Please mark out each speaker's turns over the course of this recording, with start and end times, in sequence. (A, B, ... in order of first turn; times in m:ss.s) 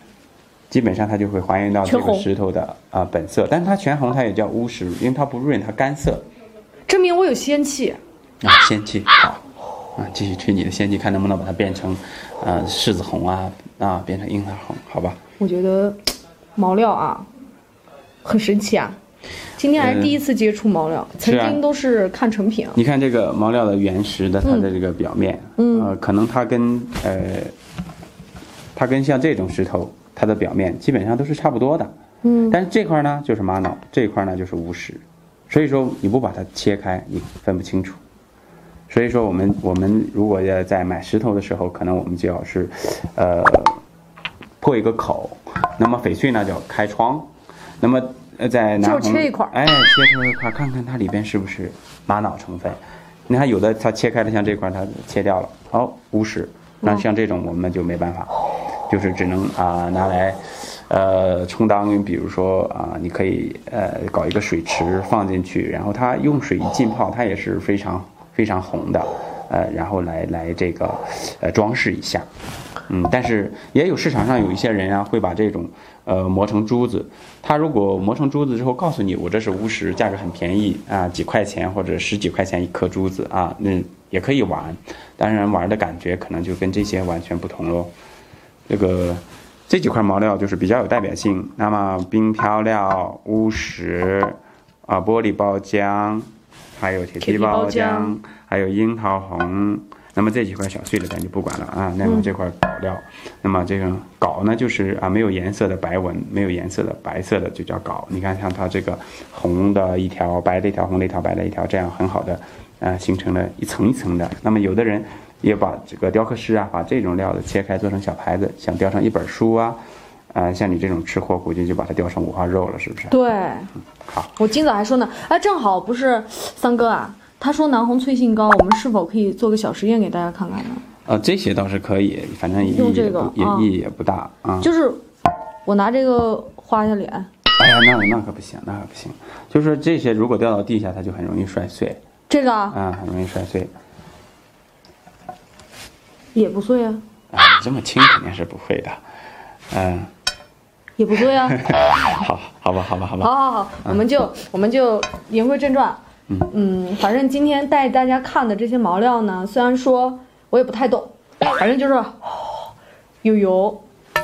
0:00.7-0:06.2 A
0:01.8-0:02.3 B
0:06.9-0:08.0 B
0:08.4-0:09.4 A
0:10.0-0:15.2 A
0:15.4-0:16.0 B
0:16.6-0:17.3 B
0:18.2-0:19.0 B
0:19.6-0:22.8 B
0:19.8-0:20.2 A
0:21.2-0:21.6 A
0:22.8-0:27.5 A
0:24.4-0:24.7 B
0:25.6-0:25.9 B
0:28.8-0:31.9 A
0:32.2-0:32.6 B
0:32.5-0:38.0 A
0:38.9-0:43.8 A
0:44.6-0:47.3 A
0:47.8-0:58.3 A
0:48.8-0:49.5 B
0:58.9-1:12.3 A
1:12.9-1:27.9 A
1:28.7-1:59.8 A
1:37.2-1:38.1 B
1:42.0-1:42.3 B
2:00.3-2:03.2 A
2:03.1-2:03.7 B
2:04.0-2:04.3 A
2:04.4-2:10.8 B
2:11.0-2:14.7 A
2:12.6-2:13.7 B
2:14.6-2:15.0 B
2:15.6-2:17.3 B
2:17.6-2:22.0 A
2:22.3-2:22.8 B
2:22.7-2:23.7 A
2:26.4-2:27.0 B
2:27.3-2:29.0 A
2:29.7-2:30.1 A
2:31.0-2:31.6 B
2:31.2-2:34.2 A
2:33.2-2:42.7 B
2:43.2-2:43.8 B